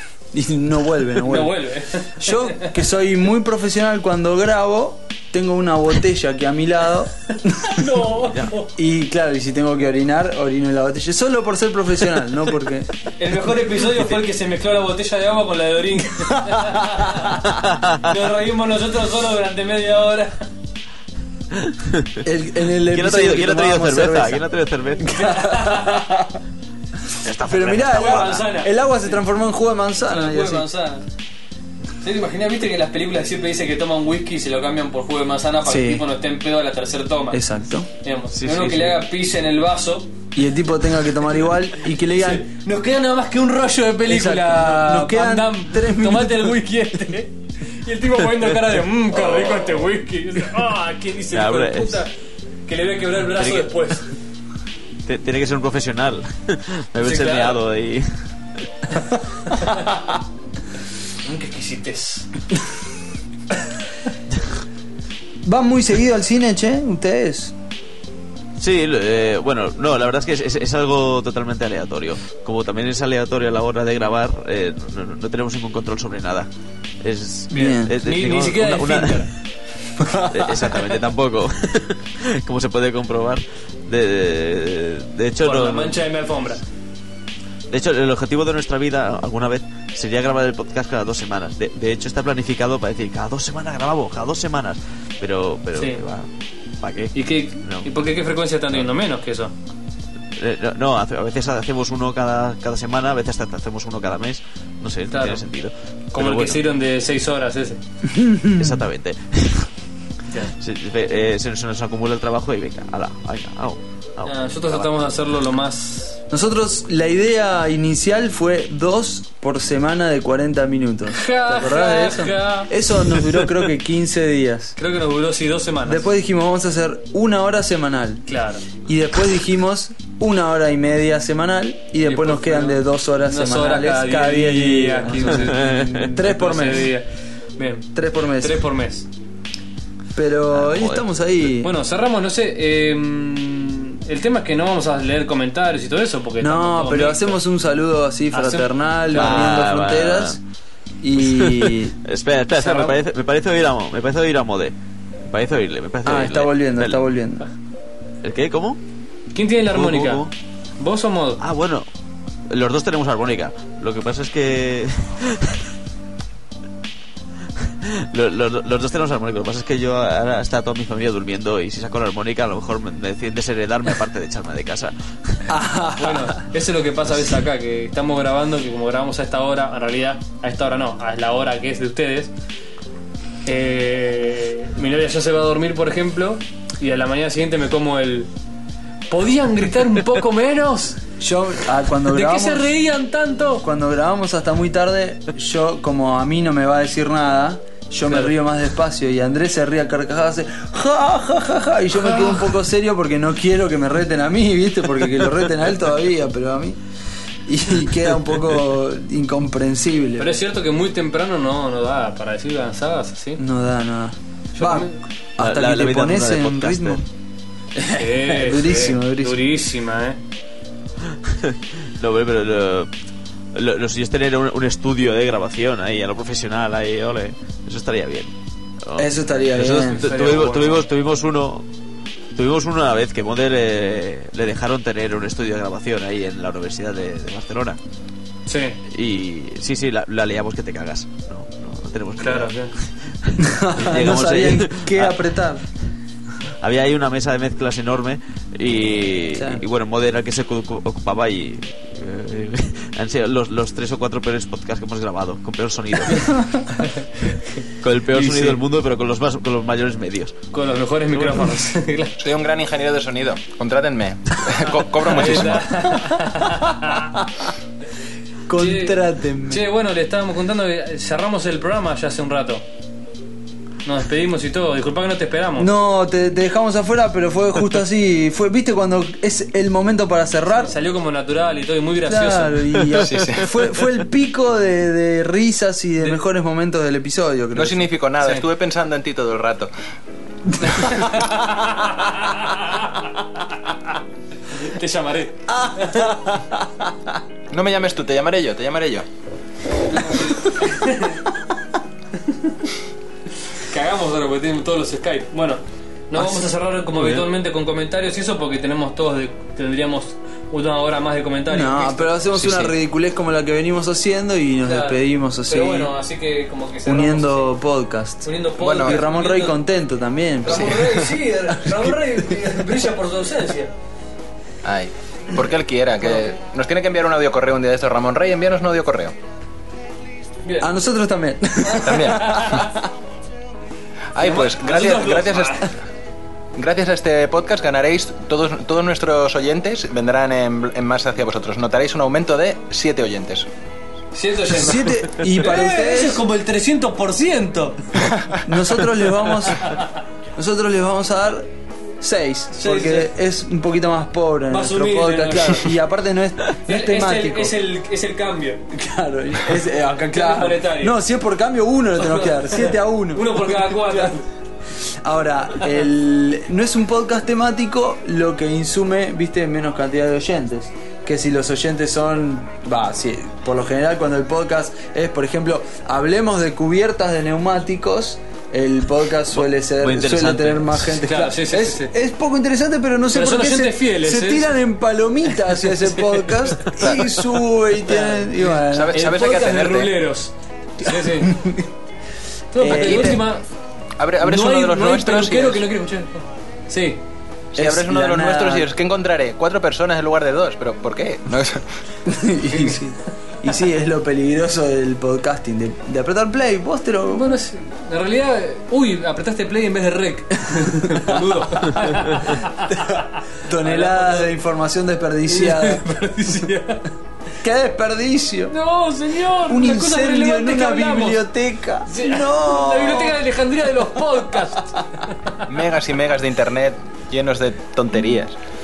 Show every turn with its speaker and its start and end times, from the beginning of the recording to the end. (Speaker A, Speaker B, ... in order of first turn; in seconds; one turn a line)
Speaker A: 0.3-7.9
Speaker B: 1.2-2.7
Speaker B: 7.3-8.7
Speaker A: 8.8-12.9
Speaker B: 13.2-20.5
Speaker C: 17.5-18.1
Speaker C: 21.5-22.3
Speaker A: 22.2-24.4
Speaker C: 22.8-25.2
Speaker A: 25.0-26.4
Speaker B: 25.1-26.2
Speaker C: 27.2-28.4
Speaker A: 27.4-30.7
Speaker B: 27.7-28.7
Speaker B: 30.1-31.1
Speaker B: 32.0-37.4
Speaker A: 35.6-36.0
Speaker A: 37.3-37.9
Speaker B: 38.0-40.1
Speaker C: 38.3-39.0
Speaker A: 40.4-42.5
Speaker B: 42.1-52.1
Speaker A: 44.1-46.6
Speaker C: 51.3-52.0
Speaker B: 52.7-54.1
Speaker C: 53.3-53.7
Speaker C: 55.1-58.3
Speaker B: 57.0-57.6
Speaker B: 59.5-60.0
Speaker B: 61.2-62.3
Speaker A: 65.4-67.5
Speaker C: 68.6-76.5
Speaker C: 77.0-79.3
Speaker B: 77.5-79.3
Speaker A: 77.5-77.9
Speaker A: 80.0-80.5
Speaker C: 80.2-86.0
Speaker B: 85.4-86.6
Speaker C: 87.7-96.3
Speaker B: 95.7-96.0
Speaker C: 96.8-97.9
Speaker B: 97.1-99.5
Speaker C: 100.4-106.6
Speaker B: 105.1-105.5
Speaker B: 106.1-107.8
Speaker A: 108.0-108.8
Speaker C: 108.5-109.7
Speaker B: 110.3-110.5
Speaker C: 110.6-114.9
Speaker B: 114.2-116.2
Speaker A: 116.3-124.8
Speaker B: 121.1-122.7
Speaker B: 124.8-126.1
Speaker A: 125.8-136.9
Speaker B: 128.3-128.7
Speaker B: 132.0-139.1
Speaker C: 135.3-136.2
Speaker A: 137.9-138.6
Speaker A: 140.2-141.7
Speaker C: 140.5-141.1
Speaker B: 141.6-147.4
Speaker A: 146.4-150.4
Speaker B: 148.3-149.5
Speaker C: 149.1-150.4
Speaker A: 151.0-151.9
Speaker C: 151.2-154.7
Speaker B: 152.6-153.0
Speaker C: 155.2-157.0
Speaker A: 156.1-157.4
Speaker C: 158.2-158.8
Speaker B: 159.3-161.4
Speaker C: 159.7-160.3
Speaker C: 161.4-161.9
Speaker C: 162.5-165.6
Speaker C: 167.7-175.5
Speaker A: 175.5-176.5
Speaker B: 176.0-182.3
Speaker B: 183.4-188.3
Speaker B: 189.1-191.0
Speaker A: 191.2-192.7
Speaker B: 192.1-193.7
Speaker A: 193.6-206.8
Speaker B: 198.1-198.3
Speaker A: 207.5-210.3
Speaker B: 210.2-213.4
Speaker A: 213.4-217.1
Speaker B: 214.6-214.9
Speaker C: 215.4-217.0
Speaker A: 217.7-219.4
Speaker B: 217.8-220.2
Speaker C: 221.2-222.9
Speaker C: 223.5-228.3
Speaker C: 228.8-231.7
Speaker A: 229.0-230.5
Speaker B: 229.9-230.8
Speaker C: 232.3-237.8
Speaker B: 238.5-238.8
Speaker C: 238.9-245.2
Speaker B: 242.2-242.7
Speaker A: 243.4-245.7
Speaker C: 246.6-256.6
Speaker A: 249.3-249.7
Speaker B: 256.8-257.1
Speaker C: 257.8-260.4
Speaker B: 258.1-258.6
Speaker B: 260.5-262.2
Speaker C: 261.1-261.6
Speaker D: 262.2-266.0
Speaker B: 265.1-267.1
Speaker A: 267.1-267.4
Speaker A: 268.5-269.6
Speaker B: 268.5-272.6
Speaker B: 273.9-275.7
Speaker A: 275.6-280.7
Speaker B: 280.6-282.9
Speaker A: 282.0-287.9
Speaker D: 283.0-283.5
Speaker D: 287.6-289.7
Speaker B: 288.2-288.5
Speaker D: 290.6-291.1
Speaker B: 290.9-293.0
Speaker B: 294.5-296.1
Speaker A: 295.5-296.9
Speaker D: 297.5-299.1
Speaker B: 299.9-301.2
Speaker B: 302.3-302.6
Speaker B: 303.5-312.1
Speaker A: 311.5-315.9
Speaker C: 312.4-312.7
Speaker B: 314.6-317.6
Speaker A: 316.9-321.0
Speaker B: 318.2-319.6
Speaker D: 318.6-319.0
Speaker B: 320.4-323.7
Speaker D: 320.5-320.9
Speaker A: 321.6-321.9
Speaker D: 324.6-329.1
Speaker B: 330.4-330.7
Speaker A: 330.6-332.9
Speaker B: 331.6-332.7
Speaker D: 331.7-332.7
Speaker D: 334.1-335.7
Speaker B: 334.2-335.7
Speaker D: 336.6-343.5
Speaker B: 344.1-348.1
Speaker A: 344.5-346.2
Speaker A: 348.4-349.7
Speaker B: 349.6-349.9
Speaker A: 350.4-351.5
Speaker A: 352.0-357.6
Speaker B: 352.6-353.1
Speaker B: 354.5-355.7
Speaker B: 356.7-358.6
Speaker A: 358.7-364.1
Speaker B: 360.1-361.0
Speaker B: 362.0-364.3
Speaker A: 364.7-389.0
Speaker C: 379.4-381.0
Speaker B: 380.9-381.9
Speaker B: 383.1-384.6
Speaker B: 385.5-387.0
Speaker B: 387.9-391.5
Speaker D: 388.7-389.9
Speaker A: 391.0-391.7
Speaker B: 392.5-393.4
Speaker A: 392.6-393.3
Speaker D: 392.7-393.2
Speaker D: 394.0-395.6
Speaker B: 394.2-397.0
Speaker D: 397.5-401.6
Speaker A: 397.6-398.7
Speaker A: 402.1-407.3
Speaker B: 402.4-402.9
Speaker B: 407.1-414.4
Speaker A: 410.6-411.1
Speaker A: 413.4-415.9
Speaker B: 415.3-416.9
Speaker A: 417.4-418.5
Speaker B: 418.5-421.3
Speaker A: 419.3-423.2
Speaker B: 421.9-425.4
Speaker D: 425.4-428.4